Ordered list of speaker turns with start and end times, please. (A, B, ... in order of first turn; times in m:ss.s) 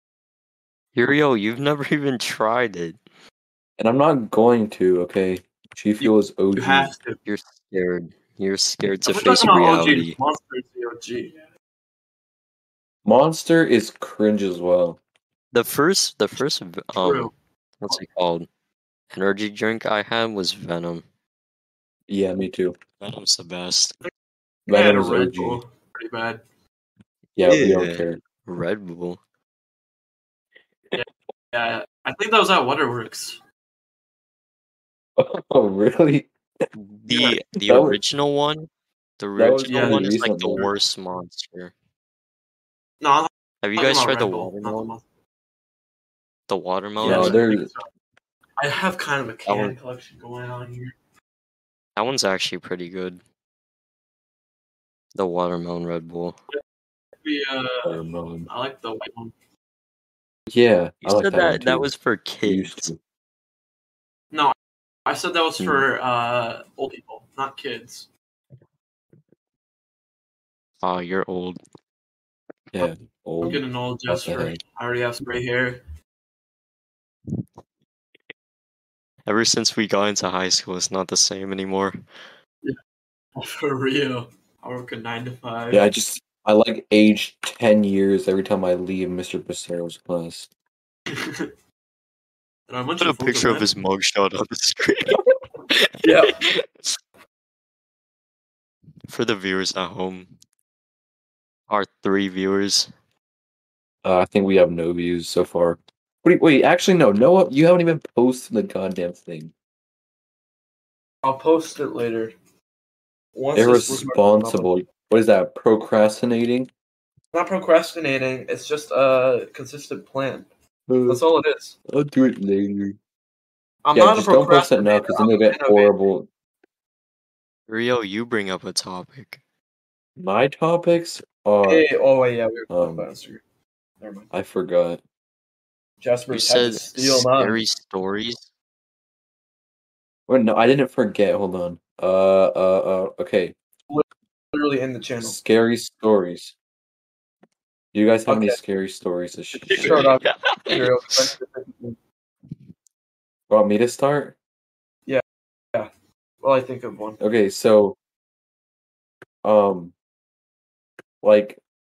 0:00.9-0:03.0 A
0:03.8-0:06.9 B
0:06.0-0:07.2 C
0:07.2-0:10.2 A
0:09.0-0:11.3 C
0:13.0-0:15.0 B
0:15.5-0:18.5 A
0:17.0-0:17.3 C
0:19.1-0:21.0 A
0:22.1-0:22.7 B
0:23.0-0:24.0 A
0:24.7-0:25.6 B
0:24.7-0:26.4 C
0:27.4-0:28.2 B
0:27.4-0:29.2 A
0:31.0-0:33.4 C
0:35.2-0:36.3 B
0:36.7-0:41.7 A
0:37.6-0:38.0 B
0:39.4-0:40.7 B
0:39.6-0:40.2 C
0:43.0-0:45.0 C
0:43.6-0:44.9 A
0:46.5-0:47.4 A
0:47.0-0:47.8 C
0:47.0-0:47.7 B
0:48.6-0:50.9 C
0:49.4-0:49.8 A
0:52.0-0:53.2 A
0:55.1-0:56.4 A
0:57.2-0:58.0 C
0:57.8-0:58.5 B
0:58.5-0:59.3 C
1:00.5-1:01.9 B
1:01.0-1:02.9 A
1:02.4-1:03.0 B
1:05.0-1:08.1 C
1:05.6-1:05.8 A
1:10.8-1:11.6 A
1:12.7-1:14.6 B
1:13.4-1:15.8 C
1:19.3-1:22.0 A
1:23.4-1:25.8 C
1:25.7-1:30.5 B
1:31.1-1:31.5 C
1:32.7-1:33.7 C
1:33.0-1:35.2 A
1:35.7-1:36.9 A
1:36.0-1:36.5 C
1:39.1-1:40.3 A
1:41.7-1:42.9 A
1:44.0-1:49.5 B
1:51.2-1:52.3 C
1:53.4-1:54.7 C
1:53.5-1:56.7 B
1:57.3-2:00.5 C
2:00.9-2:01.2 B
2:01.1-2:01.8 C
2:01.9-2:03.0 B
2:03.8-2:05.9 C
2:03.9-2:06.3 B
2:07.7-2:09.4 A
2:10.2-2:11.8 B
2:11.6-2:13.4 C
2:12.7-2:13.1 B
2:14.0-2:14.3 C
2:14.3-2:15.0 B
2:16.0-2:17.6 C
2:16.3-2:18.4 A
2:20.3-2:23.5 B
2:23.9-2:25.4 C
2:25.2-2:26.5 B
2:27.9-2:30.1 B
2:28.3-2:28.6 C
2:29.7-2:32.0 C
2:29.7-2:31.1 A
2:33.5-2:34.4 B
2:36.4-2:37.2 C
2:37.2-2:38.0 B
2:39.4-2:39.9 B
2:41.2-2:41.6 B